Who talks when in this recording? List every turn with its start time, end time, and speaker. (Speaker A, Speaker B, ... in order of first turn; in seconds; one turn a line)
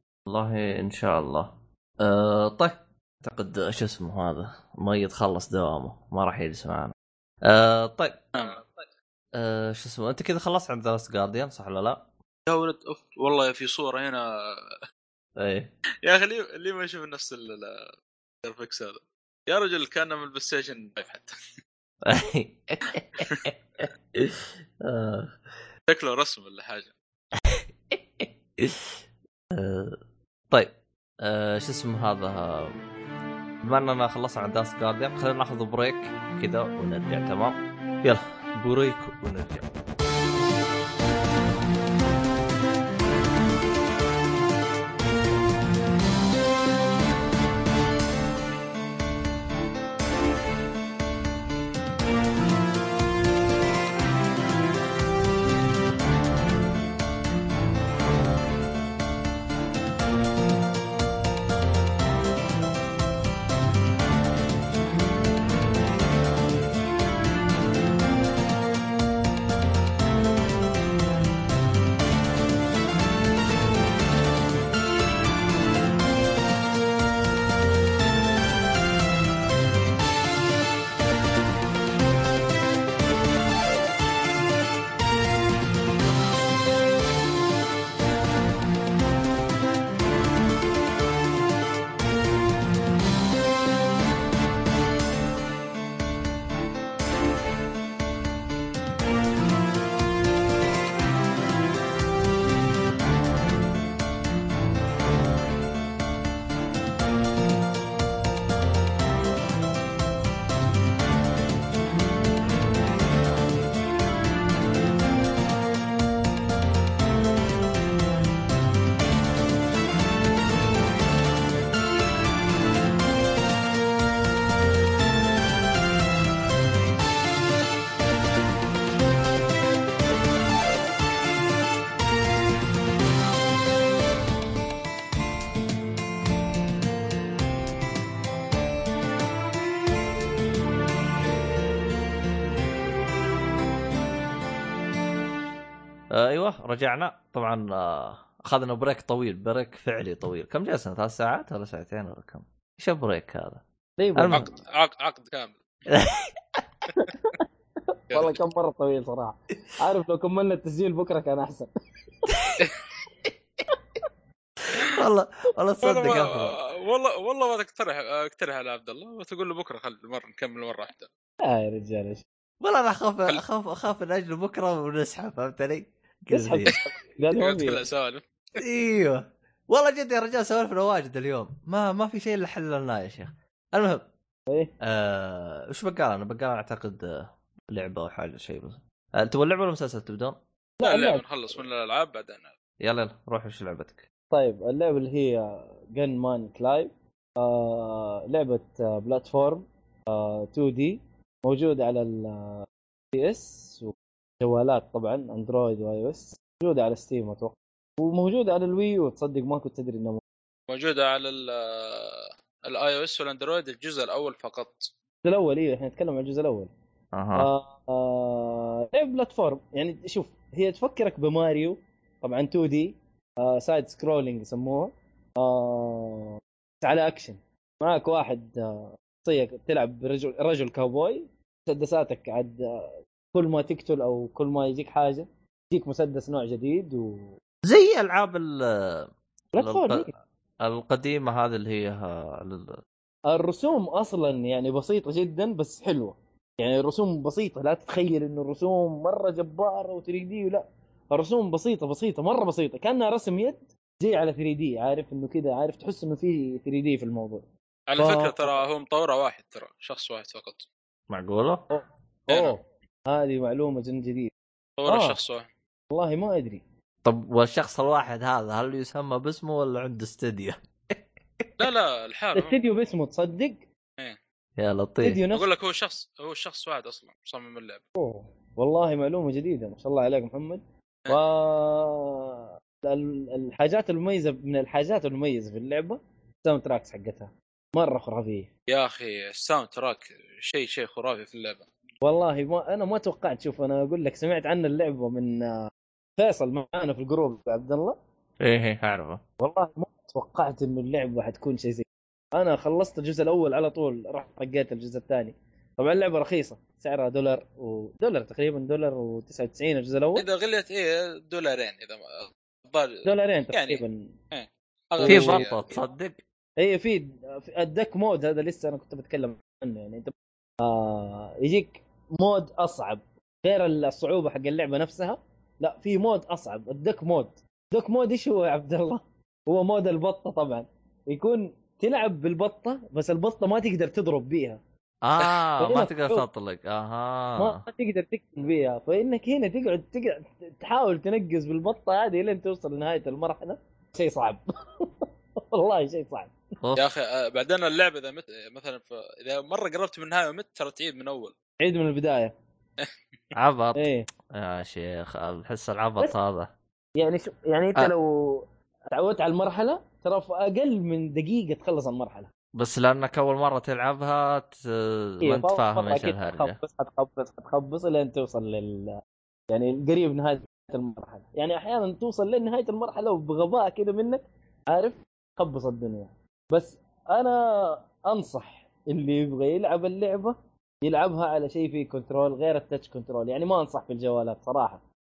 Speaker A: 0.3-6.9
Speaker A: 7.5-8.3
Speaker B: 8.3-8.7
Speaker A: 9.3-12.0
Speaker B: 12.5-14.2
Speaker A: 15.4-15.7
Speaker B: 16.0-17.9
Speaker B: 18.4-21.4
Speaker A: 22.1-25.4
Speaker B: 23.2-23.4
Speaker B: 25.9-26.9
Speaker A: 27.5-28.9
Speaker A: 29.5-30.0
Speaker A: 30.5-32.8
Speaker A: 33.6-39.7
Speaker A: 146.1-153.6
Speaker C: 154.0-154.5
Speaker A: 154.2-154.5
Speaker B: 154.3-155.6
Speaker A: 155.9-156.6
Speaker C: 157.0-157.4
Speaker C: 158.1-161.7
Speaker B: 158.1-158.4
Speaker A: 162.3-162.6
Speaker A: 164.7-166.6
Speaker B: 165.8-171.1
Speaker C: 171.4-172.2
Speaker A: 172.6-176.8
Speaker C: 176.3-177.8
Speaker B: 177.3-178.6
Speaker A: 178.6-184.0
Speaker C: 184.5-184.7
Speaker A: 184.8-190.4
Speaker C: 190.8-191.3
Speaker B: 190.8-192.5
Speaker A: 192.8-194.1
Speaker C: 194.3-210.2
Speaker B: 210.7-214.9
Speaker C: 215.2-216.7
Speaker A: 217.1-217.5
Speaker C: 217.3-237.4
Speaker A: 237.6-240.1
Speaker C: 239.5-240.1
Speaker A: 240.6-242.8
Speaker C: 243.3-257.5
Speaker B: 257.9-260.7
Speaker C: 258.0-258.6
Speaker A: 261.1-261.6
Speaker C: 261.7-264.3
Speaker B: 262.3-262.6
Speaker B: 264.8-265.5
Speaker C: 264.9-265.2
Speaker C: 265.9-266.6
Speaker A: 267.0-271.5
Speaker B: 271.6-272.6
Speaker C: 272.4-273.7
Speaker A: 274.6-275.2
Speaker C: 275.0-275.5
Speaker B: 275.3-277.8
Speaker C: 278.0-288.5
Speaker B: 288.7-291.7
Speaker C: 292.0-298.0
Speaker A: 298.4-299.2
Speaker C: 299.4-310.3
Speaker B: 310.2-315.8
Speaker C: 313.0-314.1
Speaker C: 315.0-315.4
Speaker A: 315.1-316.2
Speaker C: 316.6-334.6
Speaker A: 335.0-337.6
Speaker C: 335.6-336.3
Speaker C: 337.4-346.3
Speaker B: 346.8-351.4
Speaker C: 351.6-352.4
Speaker A: 353.4-356.5
Speaker C: 353.8-354.1
Speaker C: 357.0-362.3
Speaker A: 362.6-366.6
Speaker C: 365.2-384.8